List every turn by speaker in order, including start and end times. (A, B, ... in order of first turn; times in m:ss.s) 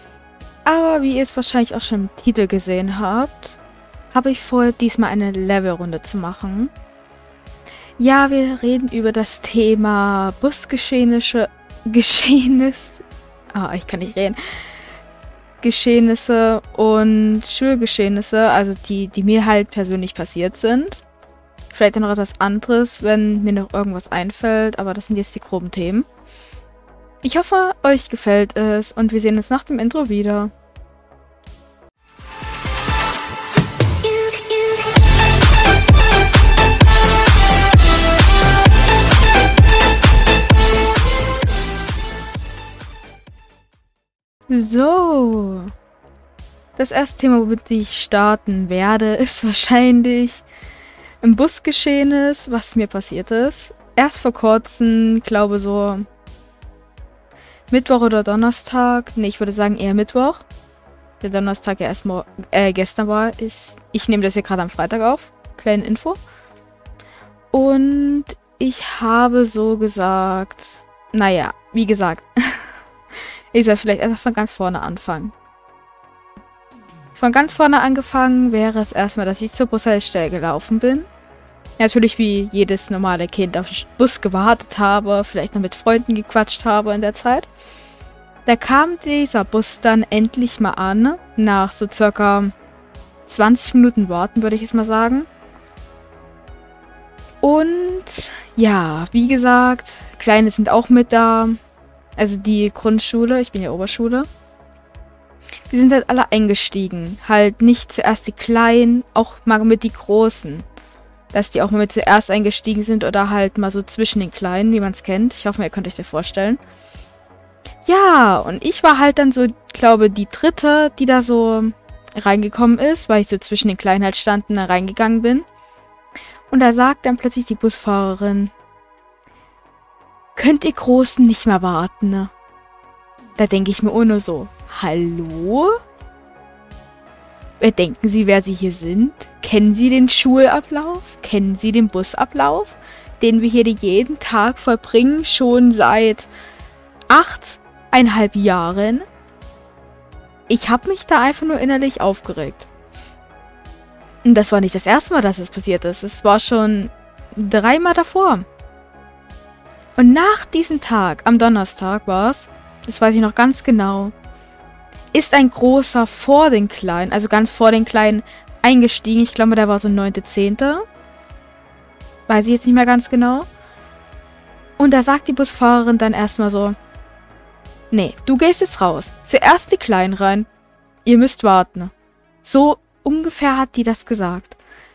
0:00.7-0:06.7 A
0:08.0-0:14.6 A
0:15.6-0:21.0 A
0:21.7-0:26.1 A
0:27.2-0:30.5 A
0:44.5-0:45.7 A
0:46.8-0:50.4 A
0:51.2-0:56.1 A
0:57.7-1:00.4 A
1:01.2-1:06.2 A
1:07.5-1:15.3 A
1:17.2-1:21.1 A
1:21.8-1:27.5 A
1:28.4-1:32.5 A
1:33.2-1:35.3 A
1:37.4-1:41.6 A
1:42.2-1:44.3 A
1:45.7-1:50.7 A
1:51.3-1:56.6 A
1:57.8-2:05.4 A
2:06.5-2:08.5 A
2:10.4-2:12.3 A
2:13.4-2:15.8 A
2:17.6-2:26.3 A
2:27.1-2:29.1 A
2:30.5-2:32.7 A
2:34.2-2:38.4 A
2:40.0-2:44.1 A
2:45.1-2:50.8 A
2:52.3-2:53.5 A
2:54.8-2:56.8 A
2:57.9-3:00.5 A
3:01.0-3:01.9 A
3:02.4-3:04.6 A